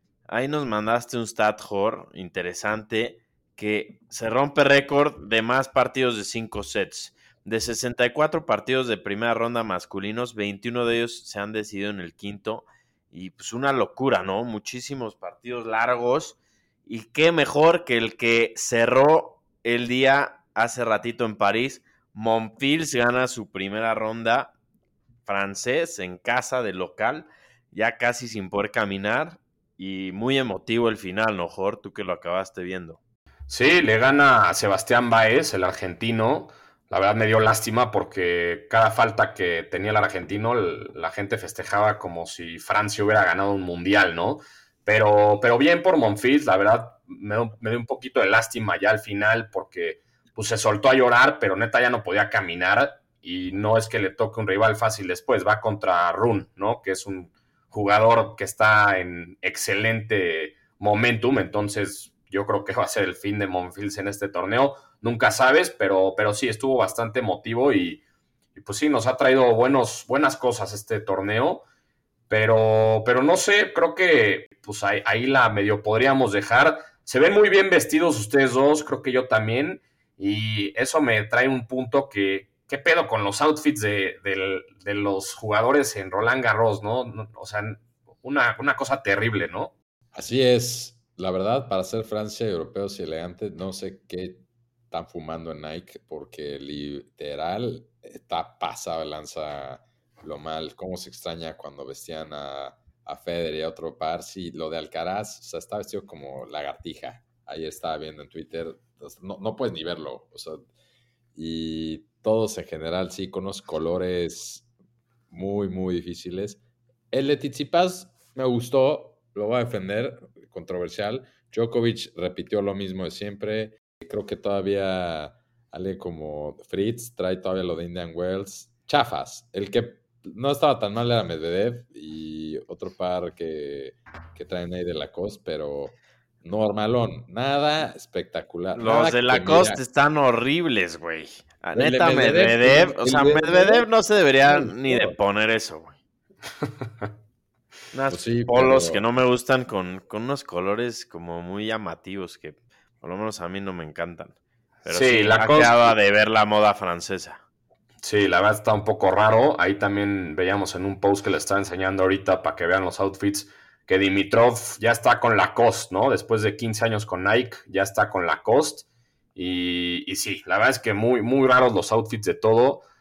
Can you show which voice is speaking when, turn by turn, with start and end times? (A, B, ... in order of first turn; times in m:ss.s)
0:00.3-0:24.5 A
0:25.2-0:33.0 A
0:33.5-1:08.0 B
1:08.6-1:11.6 B
1:12.3-1:29.7 B
1:30.1-1:50.6 C
1:51.3-1:54.6 C
1:55.3-1:56.6 C
1:57.1-2:19.8 C
2:18.7-2:26.0 A
2:21.7-2:23.9 C
2:24.4-2:25.2 C
2:27.9-2:37.4 A
2:28.1-2:29.0 C
2:34.8-2:35.9 B
2:38.0-2:52.8 B